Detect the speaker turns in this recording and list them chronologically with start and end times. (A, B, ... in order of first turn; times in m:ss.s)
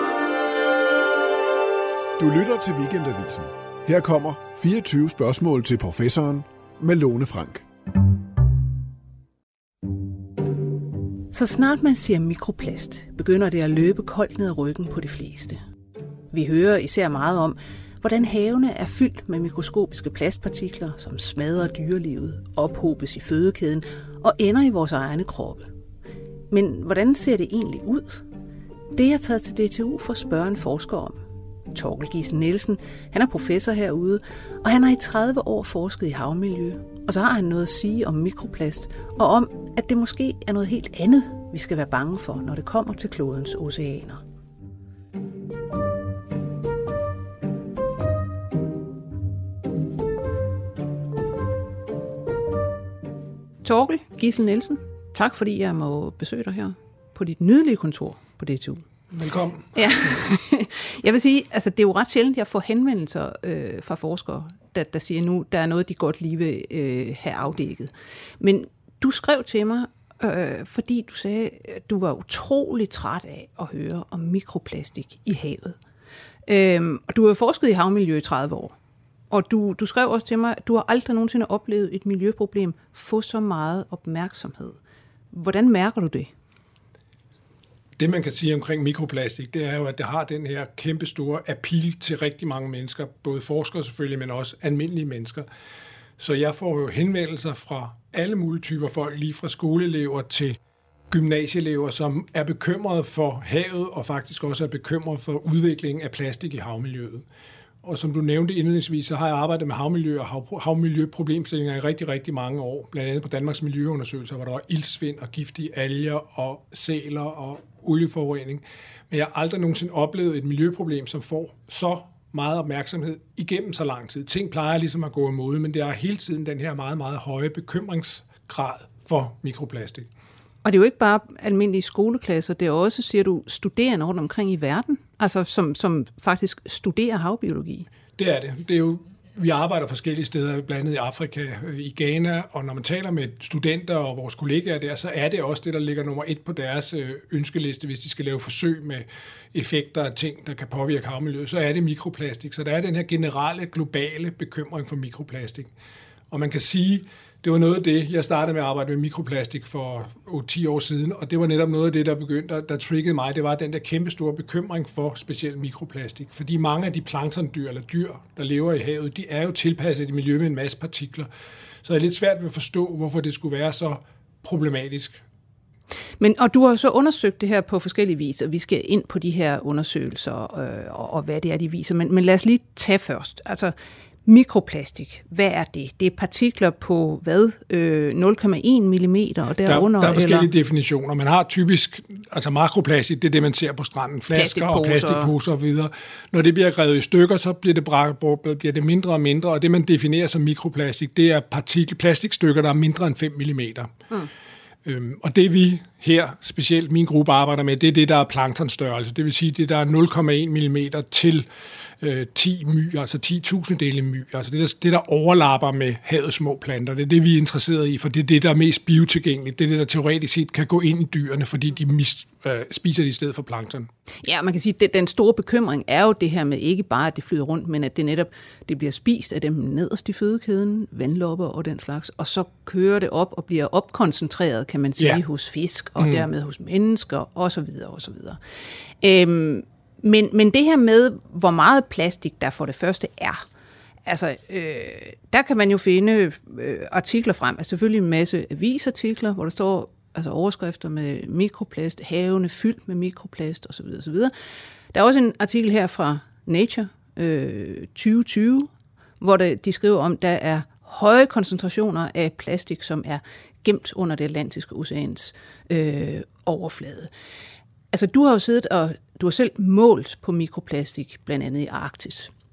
0:02.2-0:07.6 A
0:11.3-0:15.6 B
0:16.3-0:25.7 B
0:26.5-0:28.2 B
0:28.9-0:44.2 B
0:53.6-0:58.8 B
0:59.1-1:00.2 C
0:59.7-1:15.8 B
1:16.5-1:18.8 B
1:19.3-1:24.8 B
1:25.3-1:26.3 B
1:28.0-1:35.5 C
1:36.2-1:40.6 C
1:41.1-1:47.3 C
1:47.8-2:10.1 C
2:10.6-2:17.9 B
2:18.2-2:35.7 C
2:36.3-2:51.3 C
2:51.8-2:55.2 C
2:56.2-3:03.7 B
3:04.3-3:10.5 B
3:09.6-3:23.9 C
3:14.3-3:15.3 B
3:24.8-3:31.5 C
3:32.0-3:43.9 C
3:44.2-3:58.4 B
3:56.0-3:56.2 C
3:59.0-4:03.4 B
4:04.1-4:14.3 B
4:14.9-4:27.1 B
4:27.9-4:32.3 B